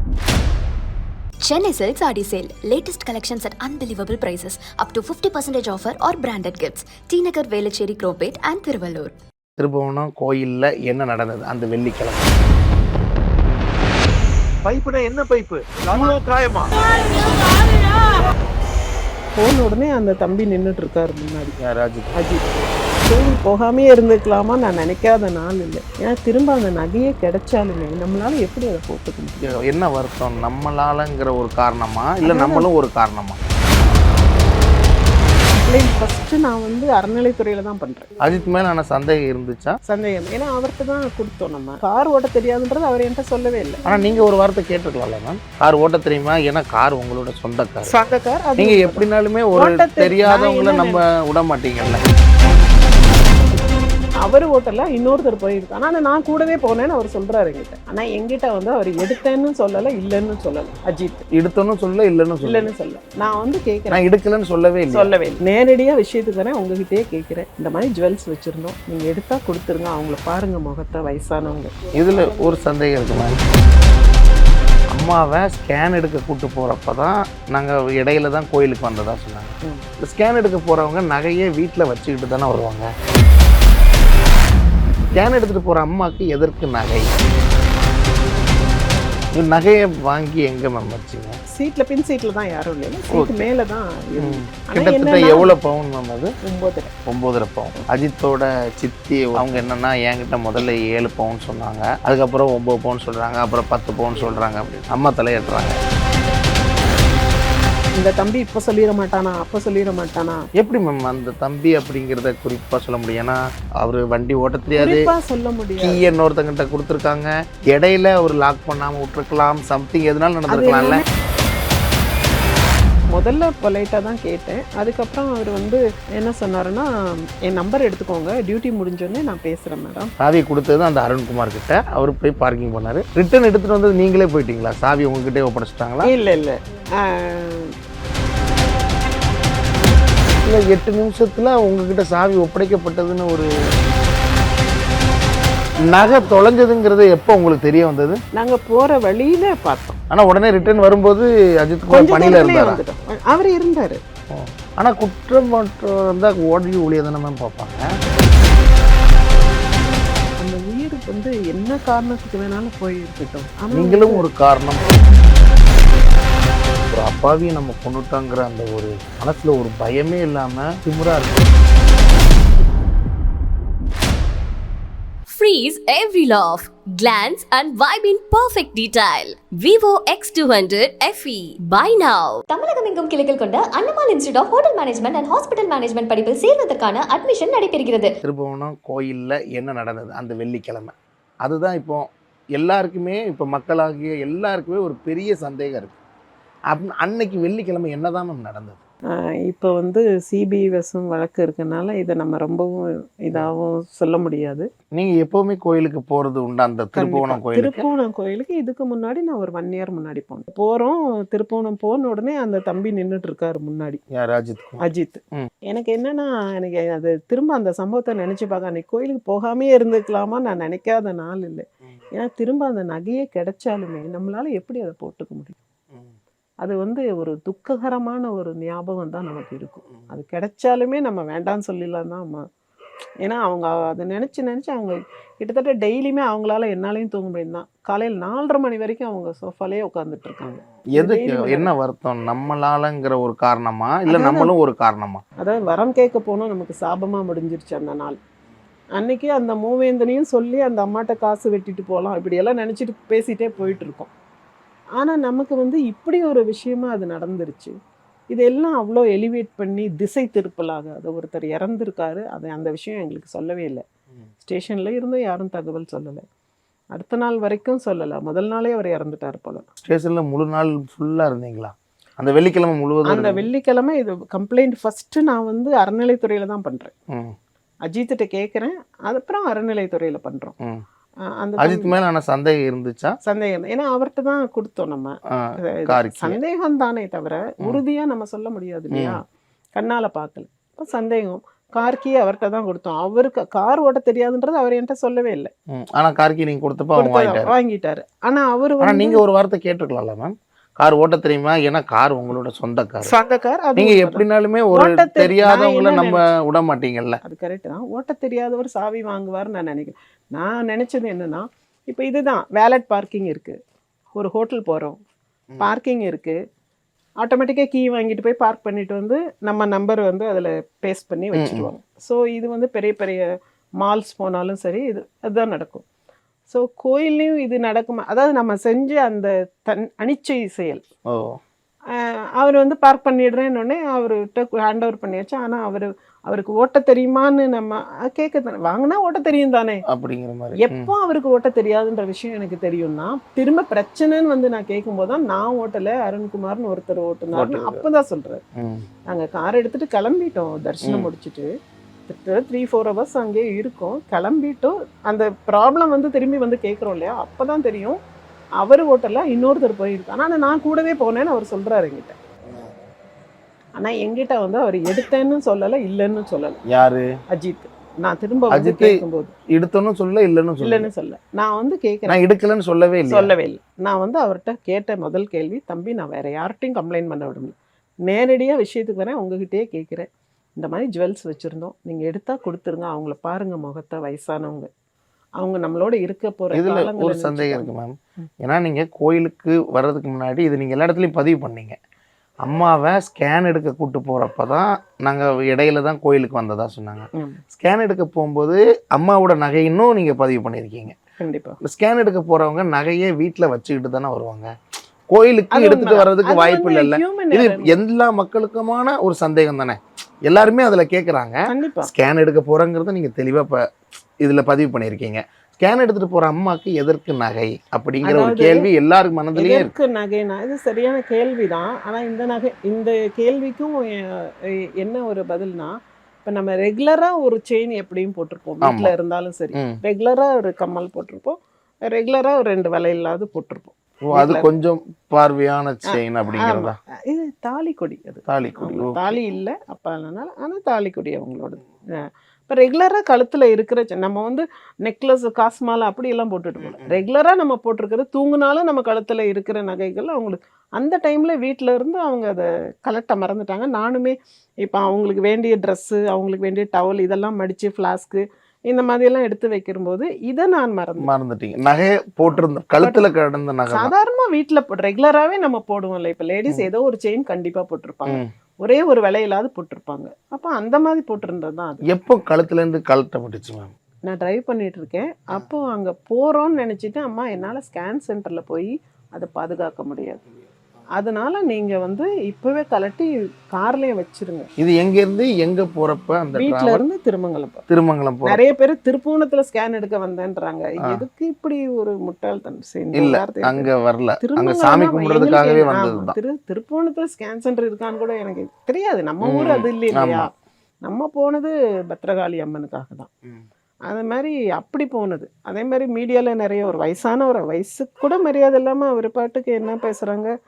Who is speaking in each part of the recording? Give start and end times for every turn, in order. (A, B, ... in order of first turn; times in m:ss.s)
0:01.4-0:09.1 A
0:09.6-0:12.3 B
0:14.6-0:16.7 C
0:19.4-0:21.6 D
0:21.6-0:22.1 B
0:22.1-0:22.5 D
0:23.0-0:29.4 D
0:29.4-0:33.4 B
0:32.2-0:32.7 D
0:35.6-0:38.1 D
0:38.2-0:39.8 B
0:39.8-0:43.8 D
0:43.8-0:47.9 B
0:47.8-0:51.0 D
0:48.6-0:52.0 B
0:54.2-1:01.2 D
1:01.4-1:02.7 B
1:02.4-1:04.0 D
1:03.9-1:05.1 B
1:04.9-1:11.9 D
1:11.9-1:13.4 B
1:14.9-1:22.9 B
1:25.1-1:27.1 B
1:29.3-1:31.3 B
1:31.5-1:35.5 D
1:33.1-1:33.4 B
1:34.2-1:36.3 B
1:36.4-1:36.9 D
1:37.0-1:45.7 B
1:48.0-1:50.4 D
1:50.6-1:55.1 B
1:54.8-1:56.1 D
1:55.8-2:01.0 B
2:00.5-2:01.0 D
2:03.1-2:06.9 D
2:07.4-2:10.1 D
2:10.2-2:16.1 B
2:16.0-2:17.7 D
2:20.4-2:23.5 B
2:25.8-2:28.2 B
2:28.3-2:30.0 D
2:30.1-2:32.8 B
2:31.9-2:34.0 D
2:34.3-2:37.8 B
2:40.4-2:44.2 D
2:43.7-2:44.9 B
2:46.9-2:51.5 B
2:55.3-3:02.4 E
3:02.5-3:08.1 F
3:08.2-3:10.9 B
3:11.4-3:12.0 B
3:12.6-3:16.0 B
3:16.7-3:18.8 B
3:19.1-3:24.7 D
3:24.9-3:27.8 B
3:26.9-3:34.0 D
3:34.1-3:34.8 B
3:34.8-3:45.6 D
3:46.6-3:52.4 D
3:53.2-4:01.7 D
4:00.9-4:05.2 B
4:04.1-4:04.5 D
4:05.4-4:08.2 D
4:09.0-4:14.1 D
4:15.0-4:17.7 D
4:18.3-4:23.8 D
4:24.4-4:26.2 D
4:26.9-4:29.6 D
4:29.8-4:33.4 B
4:33.0-4:36.9 D
4:37.8-4:40.5 D
4:41.4-4:42.0 D
4:41.6-4:43.1 B
4:43.2-4:49.2 D
4:45.3-4:46.4 B
4:48.9-4:49.2 B
4:49.8-4:55.5 D
4:55.7-4:57.5 B
4:57.0-4:59.2 D
4:58.8-5:03.1 B
5:03.0-5:06.2 D
5:03.8-5:07.2 B
5:07.2-5:13.6 D
5:14.1-5:15.0 D
5:15.6-5:16.4 D
5:17.2-5:23.2 D
5:21.3-5:21.7 B
5:23.8-5:25.8 D
5:26.5-5:30.8 D
5:31.1-5:31.4 B
5:32.0-5:39.8 D
5:39.9-5:40.9 B
5:40.6-5:48.4 D
5:47.3-5:47.8 B
5:48.6-5:48.8 B
5:49.1-5:51.5 D
5:50.8-5:51.1 B
5:52.1-5:58.0 D
5:58.6-6:02.1 D
6:03.8-6:06.6 D
6:06.7-6:07.0 B
6:07.3-6:09.3 D
6:08.5-6:08.9 B
6:09.5-6:10.9 B
6:10.6-6:12.2 D
6:12.1-6:13.3 B
6:13.1-6:24.7 D
6:25.4-6:27.7 D
6:26.5-6:31.8 B
6:32.4-6:41.0 B
6:41.2-6:41.6 D
6:41.6-6:44.5 B
6:45.1-6:53.6 B
6:45.5-6:47.7 D
6:51.5-6:51.9 D
6:54.2-6:59.7 B
6:58.0-6:58.7 D
6:59.3-7:14.5 D
7:08.6-7:08.9 B
7:09.5-7:09.8 B
7:14.1-7:16.7 B
7:15.9-7:41.1 D
7:18.3-7:19.2 B
7:26.6-7:27.0 B
7:41.0-7:43.9 B
7:42.2-7:43.1 D
7:43.7-7:51.8 D
7:51.9-7:53.7 B
7:54.1-8:00.2 D
8:01.0-8:04.5 D
8:04.6-8:06.8 B
8:06.4-8:07.6 D
8:07.7-8:08.4 B
8:08.2-8:13.7 D
8:12.9-8:16.2 B
8:14.2-8:20.3 D
8:19.2-8:20.3 B
8:20.8-8:23.1 D
8:23.9-8:30.3 D